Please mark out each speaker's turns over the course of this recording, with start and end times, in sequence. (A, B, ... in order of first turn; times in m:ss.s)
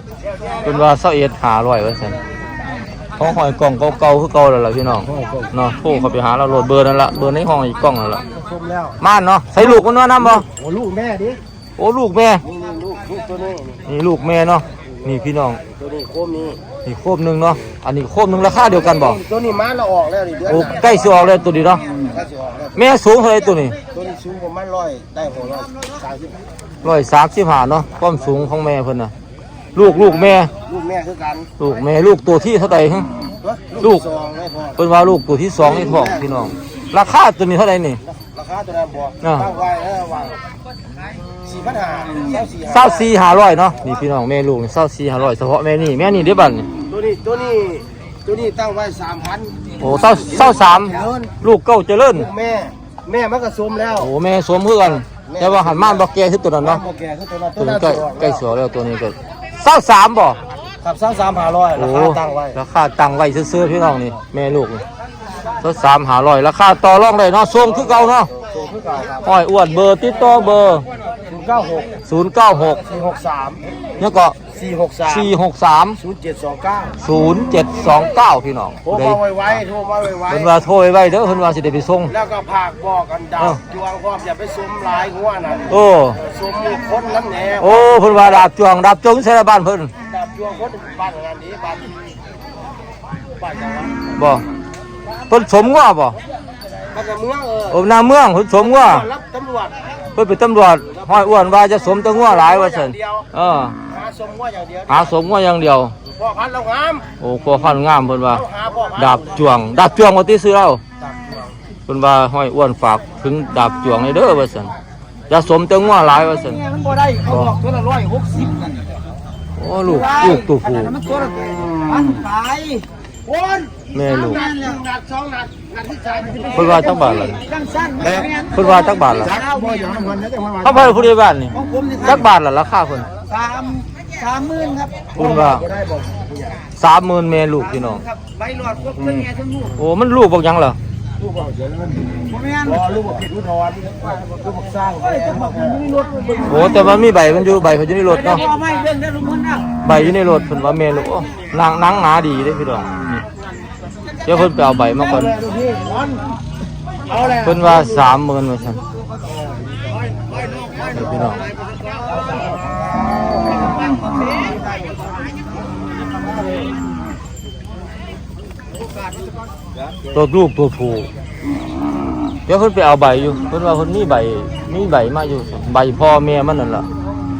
0:00.4-0:00.7 A
0:00.6-0:02.2 B
0:03.2-0:08.2 B
0:08.3-0:09.0 A
0:09.0-0:10.4 B
0:10.4-0:11.4 A
0:11.8-0:12.4 B
0:12.5-0:13.8 A
0:13.9-0:15.6 B
0:15.7-0:16.6 A
0:16.8-0:19.2 B
0:18.9-0:21.1 A
0:20.5-0:21.8 B
0:22.0-0:22.7 A
0:22.7-0:23.8 B
0:23.9-0:26.4 A
0:26.8-0:29.1 B
0:29.8-0:30.5 B
0:30.6-0:31.5 A
0:31.6-0:33.1 B
0:33.4-0:34.8 A
0:33.8-0:34.0 B
0:34.8-0:38.0 B
0:35.7-0:36.2 A
0:38.2-0:40.4 A
0:39.2-0:39.5 B
0:41.4-0:43.1 A
0:42.7-0:46.7 B
0:46.9-0:51.3 A
0:49.8-0:52.3 B
0:52.2-0:54.1 A
0:54.0-0:56.8 B
0:55.3-0:56.0 A
0:56.6-0:58.4 A
0:57.6-1:00.4 B
1:00.8-1:02.6 A
1:01.8-1:04.8 B
1:05.6-1:08.3 B
1:07.8-1:09.2 A
1:09.2-1:10.9 B
1:11.3-1:12.0 A
1:12.1-1:12.8 B
1:12.8-1:13.6 A
1:14.0-1:14.4 B
1:14.5-1:15.3 A
1:15.0-1:16.0 B
1:16.0-1:17.0 A
1:17.0-1:19.6 B
1:18.9-1:20.5 A
1:20.3-1:22.1 B
1:22.1-1:28.4 A
1:25.7-1:26.2 B
1:27.6-1:29.9 B
1:30.1-1:31.9 A
1:33.4-1:34.0 A
1:34.2-1:34.4 B
1:35.3-1:36.2 B
1:36.8-1:37.8 A
1:37.7-1:39.1 B
1:38.6-1:39.9 A
1:40.2-1:43.8 B
1:40.9-1:41.4 A
1:42.0-1:43.3 A
1:43.9-1:45.2 A
1:44.9-1:45.9 B
1:46.1-1:47.1 A
1:47.2-1:50.8 B
1:48.3-1:49.4 A
1:51.9-1:54.7 B
1:55.3-1:56.6 B
1:56.6-1:58.9 C
1:57.3-1:57.6 B
1:59.6-2:01.0 B
1:59.8-2:02.9 C
2:03.3-2:07.2 A
2:03.9-2:04.4 B
2:04.0-2:04.8 C
2:06.5-2:07.4 B
2:07.3-2:10.3 C
2:08.5-2:09.4 B
2:09.2-2:11.0 A
2:10.6-2:13.1 B
2:11.6-2:12.3 C
2:13.3-2:15.1 C
2:15.2-2:15.7 B
2:15.2-2:16.6 A
2:16.8-2:18.0 B
2:18.3-2:19.8 C
2:19.7-2:20.8 B
2:21.2-2:25.8 A
2:22.3-2:22.8 C
2:25.5-2:26.8 C
2:26.4-2:28.5 B
2:28.1-2:29.8 C
2:29.8-2:33.2 B
2:34.2-2:35.4 B
2:35.2-2:36.2 A
2:37.1-2:37.9 A
2:37.4-2:38.8 B
2:40.9-2:41.4 B
2:50.1-2:51.1 B
2:52.5-2:56.9 B